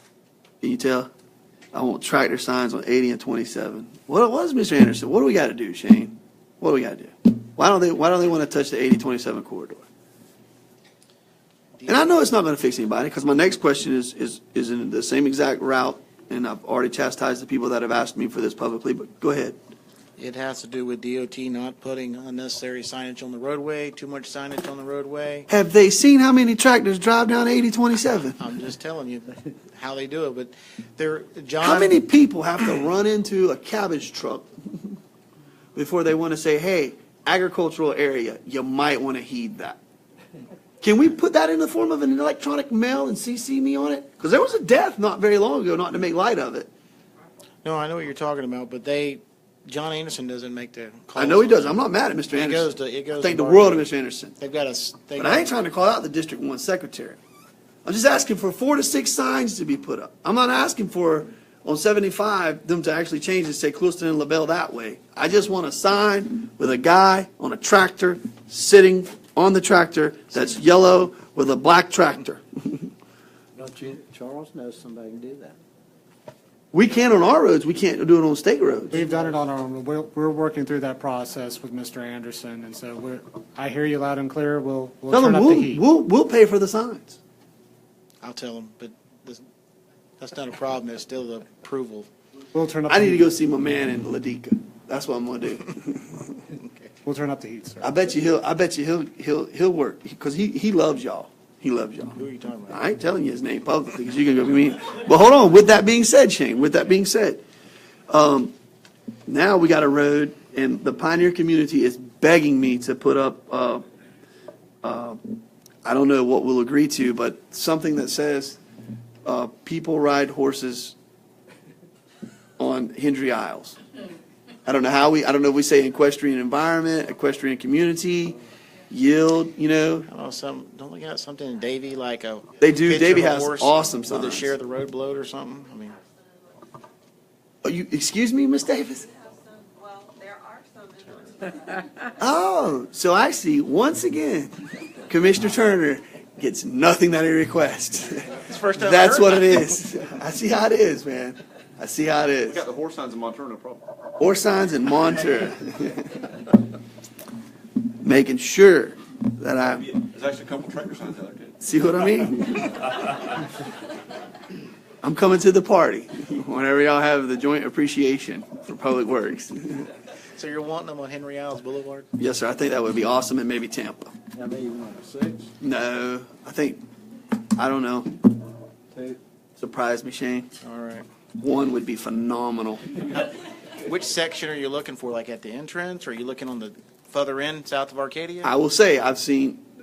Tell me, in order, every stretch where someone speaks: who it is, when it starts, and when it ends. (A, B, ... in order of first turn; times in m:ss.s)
0:00.6-0:01.1 A
0:01.7-0:09.8 A
0:11.8-0:12.1 B
0:11.8-0:19.6 A
0:20.2-0:25.5 B
0:25.5-0:28.4 A
0:28.4-0:32.0 B
0:31.6-0:35.0 A
0:35.7-0:39.8 A
0:40.8-0:46.7 A
0:47.6-0:51.8 B
0:51.2-0:54.3 A
0:52.3-0:55.5 B
0:55.2-0:57.2 A
0:57.8-1:12.9 A
1:13.6-1:15.6 C
1:16.7-1:19.0 A
1:18.9-1:25.8 D
1:25.1-1:27.2 A
1:28.2-1:29.4 B
1:30.2-1:32.1 B
1:32.5-1:33.3 D
1:32.9-1:36.4 A
1:36.5-1:36.9 B
1:37.0-1:38.1 D
1:37.8-1:42.2 A
1:42.2-1:42.8 B
1:42.7-1:47.4 A
1:48.1-1:48.5 A
1:49.3-1:53.8 A
1:54.8-1:58.6 A
1:59.2-2:01.0 A
2:02.6-2:03.8 A
2:04.6-2:08.4 A
2:08.9-2:10.1 A
2:10.1-2:16.0 B
2:12.6-2:14.5 A
2:17.6-2:19.1 A
2:19.1-2:21.6 E
2:22.2-2:32.6 A
2:28.4-2:29.7 B
2:32.4-2:33.9 F
2:34.2-2:36.3 A
2:38.0-2:39.9 A
2:39.8-2:42.0 F
2:41.6-2:42.9 A
2:45.0-2:49.9 A
2:50.3-2:52.1 B
2:52.2-2:54.1 A
2:54.3-2:55.5 C
2:55.6-2:56.8 A
2:57.6-2:58.2 A
2:59.6-3:00.5 A
3:00.6-3:01.0 B
3:01.4-3:02.8 A
3:03.8-3:08.5 B
3:08.4-3:09.6 A